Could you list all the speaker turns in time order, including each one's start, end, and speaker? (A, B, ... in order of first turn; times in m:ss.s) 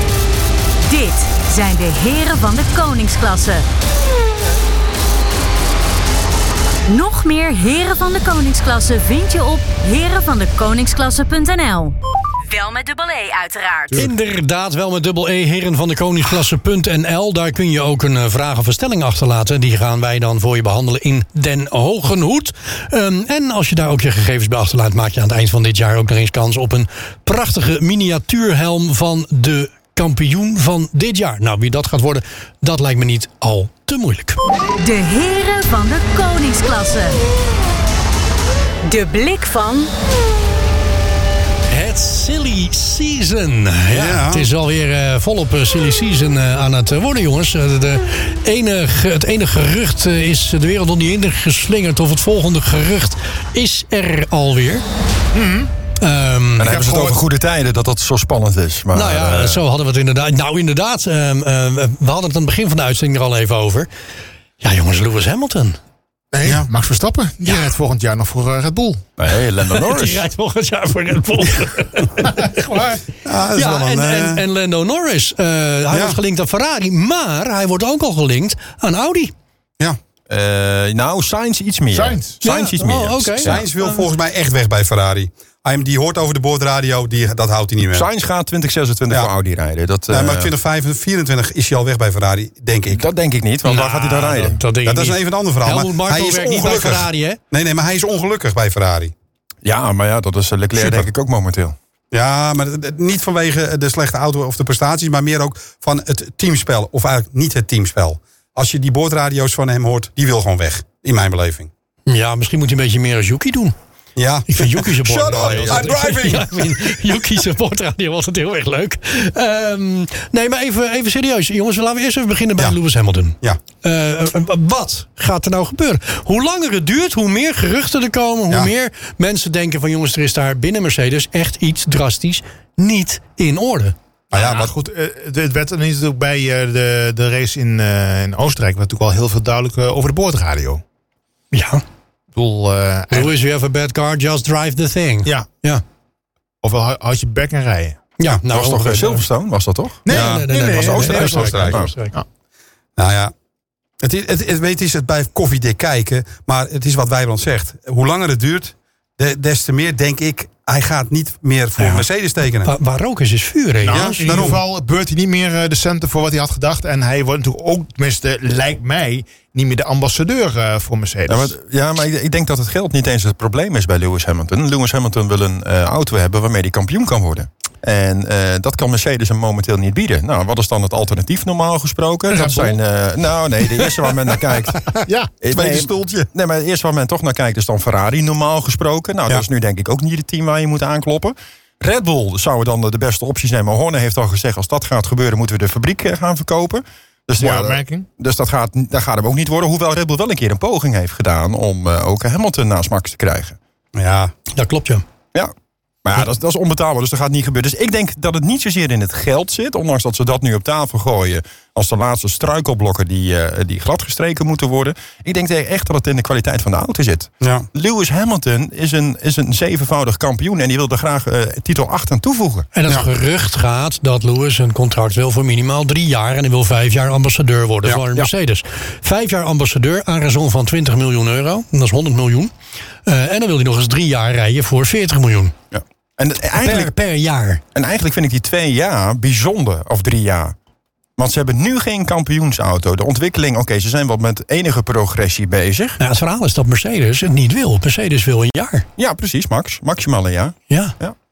0:00.8-0:03.6 A
0:06.8-0:12.0 A
0:12.5-0:14.1 A
0:13.9-0:34.4 B
0:34.8-0:37.2 A
0:38.8-0:39.9 A
0:41.7-0:54.8 B
0:43.9-0:44.5 C
0:55.3-0:55.7 D
0:56.0-0:56.8 B
0:56.6-0:59.6 E
0:56.6-0:57.2 D
0:58.9-1:03.9 B
1:04.6-1:05.8 B
1:06.3-1:09.0 D
1:09.2-1:10.2 E
1:09.7-1:13.0 B
1:13.2-1:14.4 C
1:13.5-1:19.3 B
1:15.9-1:16.2 C
1:20.3-1:23.6 E
1:21.9-1:22.4 D
1:22.4-1:24.0 B
1:23.4-1:28.1 C
1:27.8-1:30.5 E
1:30.1-1:33.0 C
1:32.9-1:34.6 E
1:33.6-1:37.4 B
1:34.8-1:39.1 C
1:39.6-1:41.8 E
1:40.8-1:41.0 C
1:42.1-1:51.7 C
1:52.1-1:53.7 B
1:54.2-1:57.0 C
1:54.5-2:13.9 B
1:55.3-1:55.9 E
2:14.3-2:14.7 C
2:14.3-2:20.8 D
2:21.5-2:21.8 B
2:22.3-2:23.3 D
2:23.1-2:25.8 B
2:26.6-2:28.0 D
2:28.2-2:29.2 B
2:28.5-2:30.1 E
2:30.0-2:32.2 D
2:30.1-2:32.2 B
2:30.1-2:31.9 C
2:30.7-2:31.9 E
2:33.0-2:33.3 C
2:34.0-2:42.7 C
2:41.8-2:42.0 B
2:42.6-2:44.6 B
2:43.8-2:51.5 D
2:43.9-2:44.6 C
2:51.3-3:23.6 E
3:02.3-3:02.8 D
3:05.0-3:05.3 D
3:05.5-3:06.3 C
3:17.4-3:18.0 D
3:23.9-3:24.3 C
3:24.5-3:25.0 B
3:26.0-3:42.7 E
3:37.4-3:37.7 C
3:42.7-3:52.5 B
3:53.0-3:55.5 B
3:55.7-3:56.9 E
3:56.5-3:57.6 B
3:57.7-4:00.6 E
4:01.2-4:06.0 E
4:06.0-4:08.9 B
4:09.0-4:11.2 E
4:10.7-4:10.9 B